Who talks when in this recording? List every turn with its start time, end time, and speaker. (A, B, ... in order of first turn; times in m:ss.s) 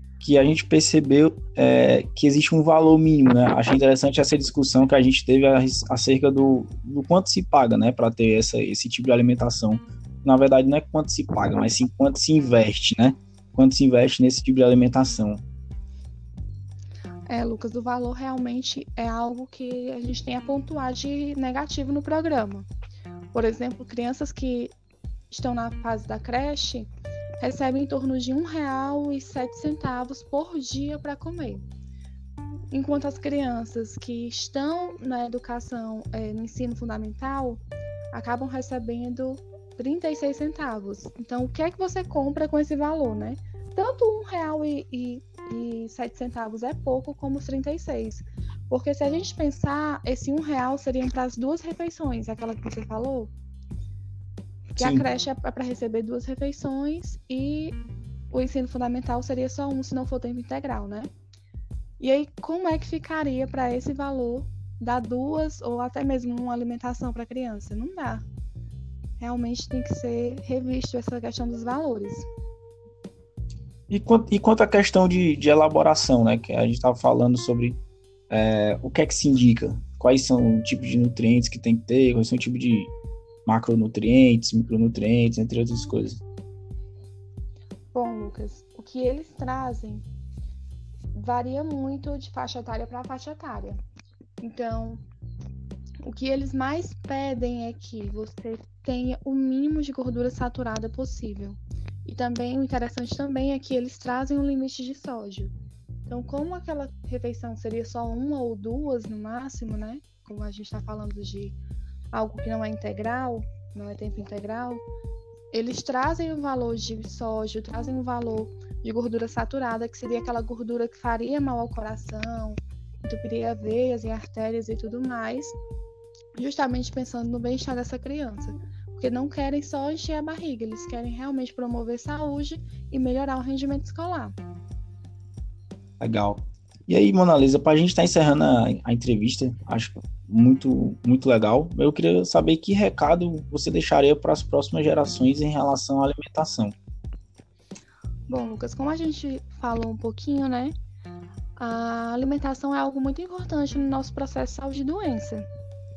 0:00.2-0:15.4 A
0:17.3-0:22.7 B
0:23.3-0:24.8 B
0:25.3-0:26.9 B
0:27.4-0:31.6 B
0:32.7-0:53.3 B
0:54.8-0:55.0 A
0:54.8-0:57.8 B
0:58.3-1:01.1 B
1:02.0-1:08.2 B
1:09.2-1:12.3 B
1:13.9-1:22.9 A
1:23.5-1:26.2 A
1:27.9-1:30.0 B
1:31.1-1:33.8 B
1:34.4-1:35.0 B
1:36.0-1:45.5 B
1:46.1-1:51.6 B
1:52.1-1:54.8 B
1:55.5-2:05.6 B
2:06.4-2:14.4 B
2:16.0-2:26.8 A
2:28.3-2:30.7 B
2:31.6-2:35.4 B